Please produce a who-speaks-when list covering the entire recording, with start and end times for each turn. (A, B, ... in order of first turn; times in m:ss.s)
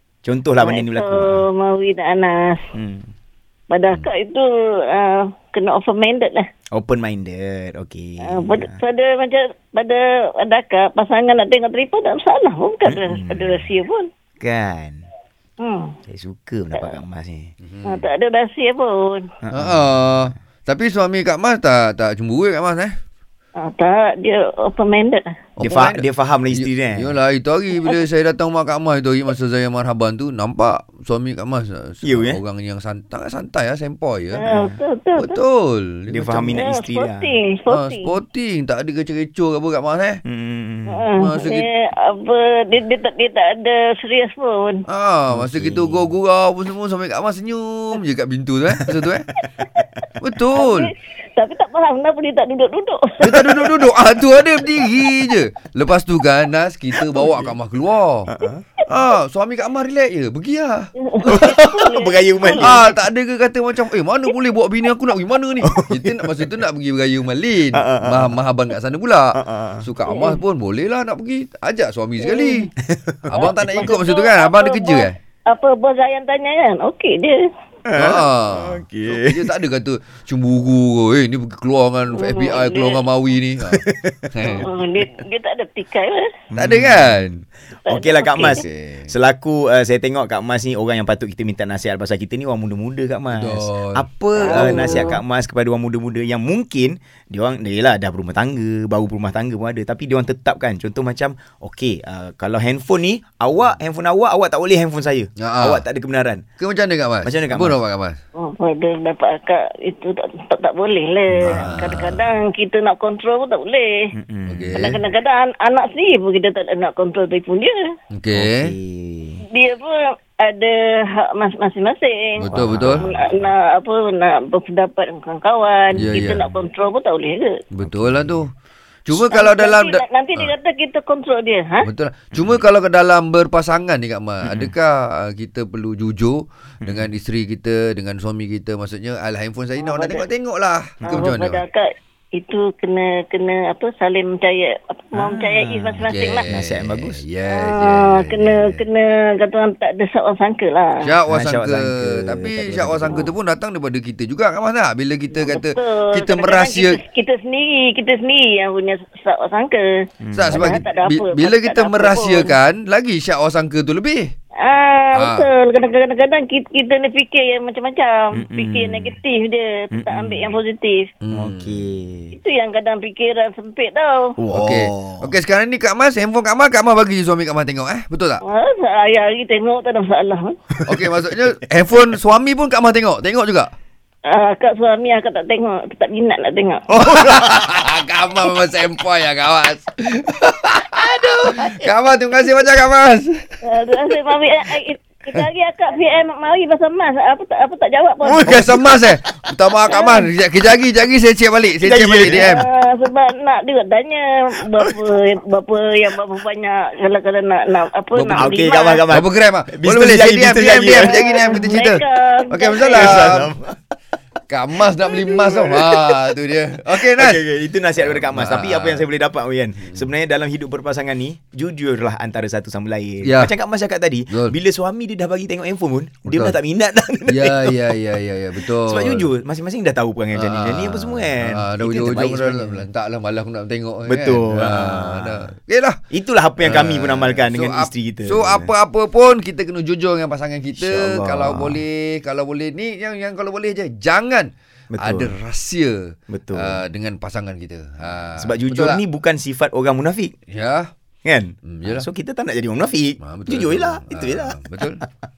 0:00.2-0:01.4 A
0:00.6-0:02.6 B
0:02.7-0:03.1 A
0:03.7-0:06.4 B
0:06.7-0:08.8 A
0:08.3-0:14.1 B
0:12.8-0:13.7 A
0:14.4-0:15.0 A
0:15.6-0:15.9 B
0:16.0-0:17.5 A
0:17.6-0:18.0 C
0:17.8-0:19.3 B
0:19.4-0:19.9 A
0:19.5-0:22.9 C
0:23.6-0:25.3 B
0:25.6-0:34.5 C
0:25.6-0:27.1 A
0:27.8-0:28.0 B
0:32.0-0:32.4 A
0:34.3-0:35.4 B
0:34.4-0:34.7 A
0:35.2-0:36.6 C
0:36.1-0:37.3 A
0:36.6-0:38.2 B
0:37.7-0:40.2 C
0:40.2-0:41.1 A
0:40.9-0:44.8 B
0:41.2-0:41.6 C
0:44.8-0:49.2 C
0:45.3-0:46.1 A
0:50.2-0:50.9 C
0:50.5-0:53.8 B
0:53.2-0:58.3 C
0:54.8-0:55.1 B
0:57.2-0:57.5 A
0:58.3-0:58.6 A
0:58.9-1:01.5 C
1:01.0-1:02.9 B
1:01.3-1:02.8 A
1:02.6-1:12.7 C
1:05.6-1:06.5 A
1:07.7-1:08.4 A
1:09.3-1:09.8 A
1:10.1-1:10.4 B
1:12.2-1:12.7 B
1:12.9-1:13.6 A
1:13.3-1:15.2 C
1:13.4-1:17.4 B
1:17.8-1:19.5 A
1:18.0-1:24.7 C
1:22.2-1:23.0 B
1:23.7-1:24.7 A
1:24.6-1:26.3 B
1:26.5-1:46.4 A
1:26.6-1:27.3 C
1:27.8-1:28.6 B
1:28.4-1:29.1 C
1:33.3-1:35.1 C
1:34.4-1:35.2 B
1:45.4-1:45.8 C
1:46.6-1:48.2 C
1:47.2-1:47.8 A
1:48.4-1:53.9 B
1:51.4-1:51.8 A
1:51.4-1:52.3 C
1:54.1-1:54.9 A
1:54.5-1:55.0 C
1:54.7-1:57.8 B
1:58.1-1:58.7 C
1:58.3-1:59.4 A
1:59.5-2:07.6 B
2:02.4-2:03.1 C
2:02.4-2:03.4 A
2:05.9-2:06.4 C
2:07.7-2:08.5 C
2:07.8-2:08.4 A
2:09.0-2:10.5 C
2:09.1-2:11.8 B
2:11.8-2:21.6 C
2:12.3-2:12.6 A
2:14.4-2:14.7 A
2:16.8-2:17.1 A
2:19.8-2:20.2 B
2:21.0-2:21.3 A
2:21.1-2:26.4 B
2:25.1-2:27.2 A
2:26.0-2:28.8 C
2:27.5-2:31.0 B
2:31.0-2:37.0 C
2:31.3-2:33.3 A
2:35.3-2:39.8 B
2:40.2-2:40.8 A
2:40.3-2:44.3 C
2:40.5-2:42.6 B
2:44.6-2:51.1 B
2:45.1-2:45.4 C
2:48.3-2:49.2 A
2:49.9-2:50.6 A
2:51.2-2:51.8 C
2:51.3-2:52.4 A
2:52.3-2:54.3 B
2:54.4-2:55.3 A
2:54.5-2:58.4 C
2:58.4-3:00.6 B
3:00.8-3:01.0 A
3:00.8-3:03.7 C
3:04.3-3:06.9 B
3:06.9-3:13.6 C
3:06.9-3:07.8 A
3:11.0-3:11.9 A
3:13.6-3:18.6 B
3:18.2-3:19.4 A
3:18.4-3:22.6 C
3:19.9-3:20.3 B
3:21.8-3:22.5 A
3:22.3-3:29.0 B
3:28.2-3:31.6 A
3:28.2-3:28.5 C
3:29.1-3:33.5 C
3:30.9-3:33.3 B
3:32.9-3:33.8 A
3:34.5-3:37.4 C
3:35.0-3:36.3 A
3:37.0-3:47.8 A
3:38.0-3:39.0 C
3:43.2-3:43.5 C
3:44.3-3:44.5 C
3:46.2-3:46.6 C
3:47.3-3:49.3 C
3:48.6-3:52.8 A
3:50.3-3:56.0 C
3:54.1-3:55.5 A
3:56.1-3:58.7 A
3:56.6-4:09.0 C
4:00.8-4:01.8 A
4:04.9-4:05.3 A
4:06.3-4:06.8 A
4:08.4-4:10.3 A
4:10.5-4:10.9 C
4:11.2-4:14.8 A
4:11.6-4:12.0 C
4:13.2-4:15.0 C